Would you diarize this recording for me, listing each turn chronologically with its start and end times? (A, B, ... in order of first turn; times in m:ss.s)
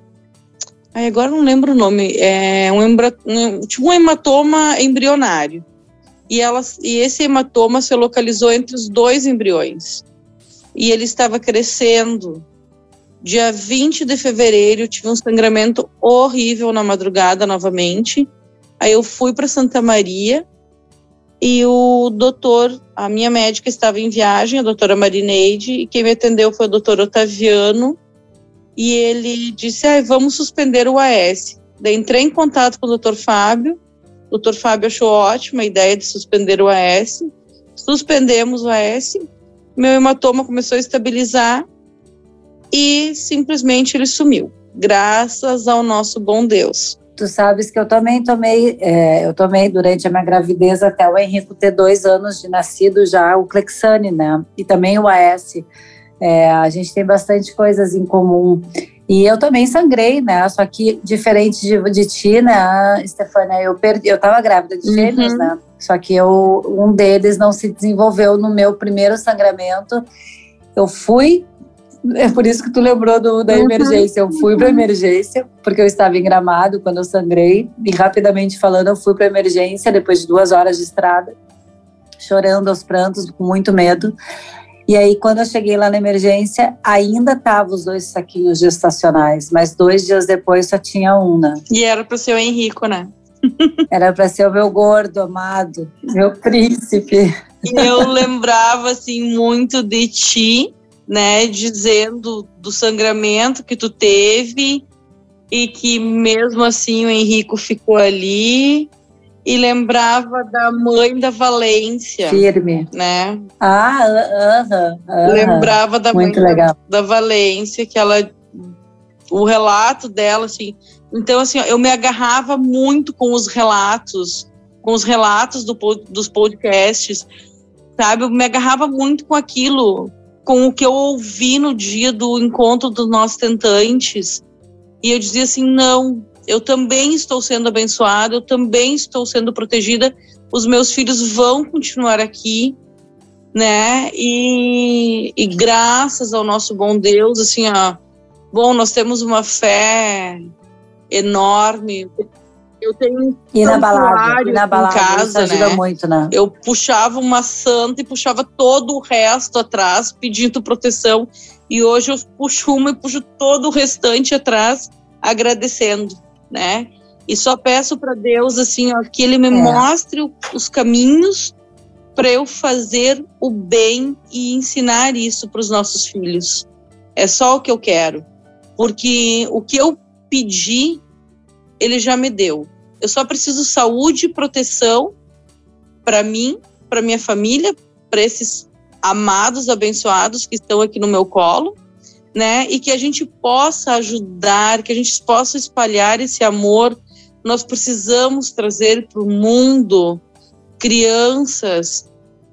0:00.9-0:05.6 A
0:06.3-0:10.0 A
0:10.7-0:12.4 A
0:13.2-0:20.4 A
0:21.4-0:28.0 A
0:28.8-0:33.8 A
0:34.3-0:41.6 A
0:42.7-0:47.0 A
0:47.2-0:55.7 B
0:56.2-1:10.1 B
1:04.8-1:05.5 A
1:10.8-1:11.5 B
1:12.1-1:21.4 B
1:13.5-1:14.8 A
1:22.2-1:24.2 B
1:24.9-1:31.6 B
1:31.7-1:33.7 A
1:33.9-1:38.1 B
1:37.6-1:44.9 A
1:45.5-1:48.9 A
1:49.4-1:53.4 A
1:52.3-1:52.9 B
1:53.6-1:56.8 B
1:55.2-1:58.7 A
1:59.3-2:07.3 A
2:08.0-2:14.4 A
2:15.0-2:22.8 A
2:23.5-2:28.0 A
2:28.5-2:30.4 A
2:31.1-2:32.2 A
2:32.8-2:35.8 A
2:33.5-2:36.3 B
2:36.3-2:51.6 A
2:49.5-2:49.8 B
2:52.2-2:58.3 A
2:58.8-3:01.0 A
3:01.8-3:05.2 A
3:06.0-3:11.8 A
3:12.3-3:20.2 A
3:20.8-3:22.1 A